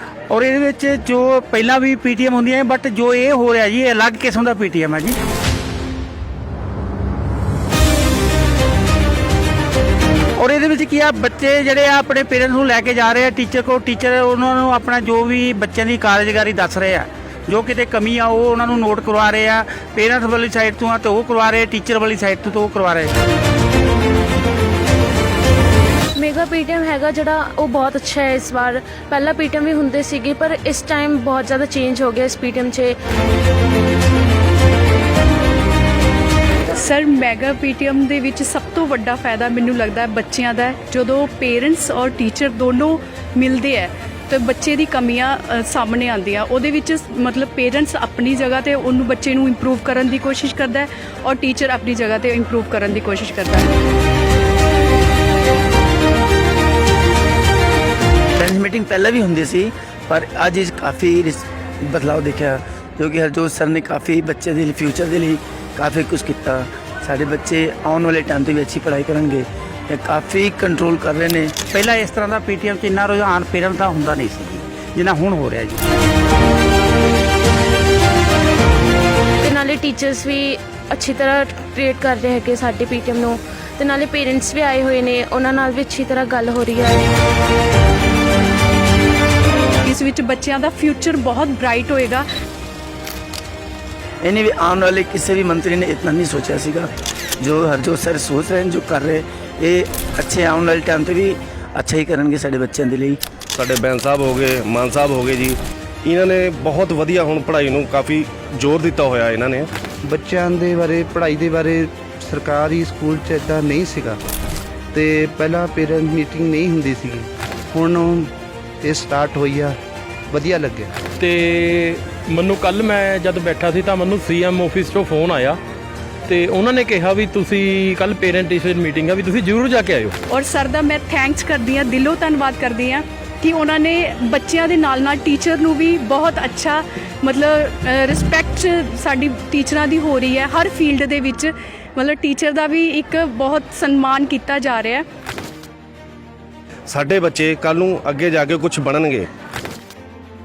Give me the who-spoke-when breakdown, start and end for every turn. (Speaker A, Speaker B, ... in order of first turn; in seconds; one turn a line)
Speaker A: 0.3-5.2
Speaker A: 10.4-23.1
Speaker B: 26.2-33.0
Speaker C: 36.7-53.7
Speaker D: 58.4-71.7
Speaker A: 71.7-75.8
Speaker B: 79.4-87.1
Speaker C: 89.8-92.2
Speaker D: 94.2-103.2
Speaker E: 103.5-109.7
Speaker F: 110.1-114.2
Speaker F: 114.9-118.3
Speaker F: 118.8-119.8
Speaker F: 120.3-120.9
Speaker G: 121.2-125.6
Speaker G: 126.3-130.2
Speaker C: 130.3-145.0
Speaker E: 146.9-149.3